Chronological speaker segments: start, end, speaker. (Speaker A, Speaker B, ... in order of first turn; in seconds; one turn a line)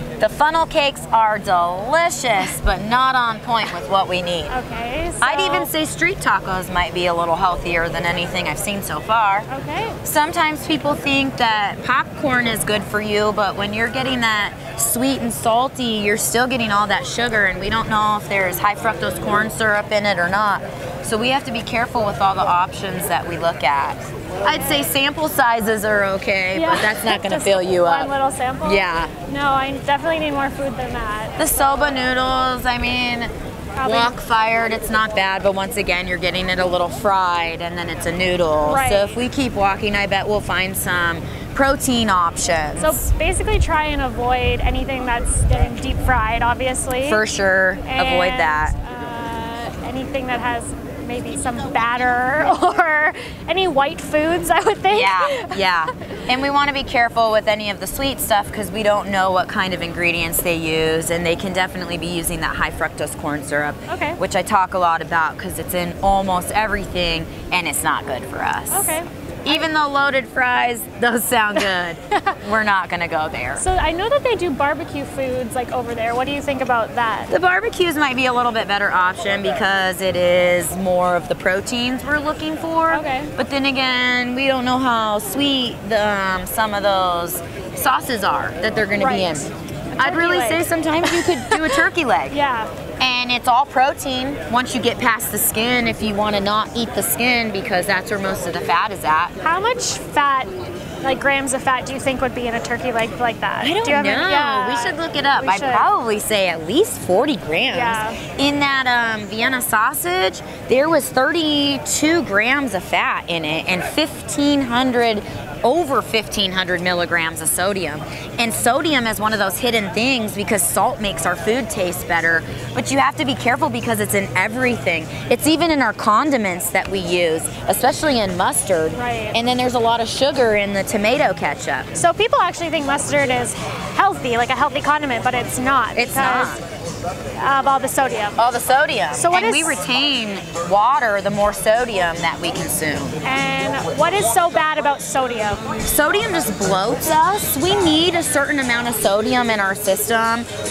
Speaker A: 0.2-4.5
Speaker B: 4.5-5.7
Speaker A: 5.2-9.5
Speaker B: 9.5-10.0
Speaker A: 10.0-28.1
Speaker B: 24.5-24.9
Speaker B: 26.6-32.1
Speaker A: 28.6-29.1
Speaker A: 31.4-33.3
Speaker B: 33.8-34.2
Speaker A: 33.8-43.0
Speaker B: 38.7-39.2
Speaker B: 42.8-47.2
Speaker A: 47.0-48.7
Speaker B: 47.8-56.2
Speaker A: 54.9-73.7
Speaker B: 63.9-64.2
Speaker B: 68.7-69.7
Speaker B: 73.6-77.3
Speaker A: 77.3-92.4
Speaker B: 82.9-83.3
Speaker B: 89.0-92.7
Speaker A: 93.0-99.4
Speaker B: 99.4-105.9
Speaker A: 103.6-131.9
Speaker B: 107.7-108.2
Speaker B: 128.9-129.4
Speaker B: 131.9-136.6
Speaker A: 135.9-136.6
Speaker B: 137.4-138.4
Speaker A: 138.4-143.2
Speaker B: 139.1-139.8
Speaker B: 143.2-145.7
Speaker A: 145.8-150.5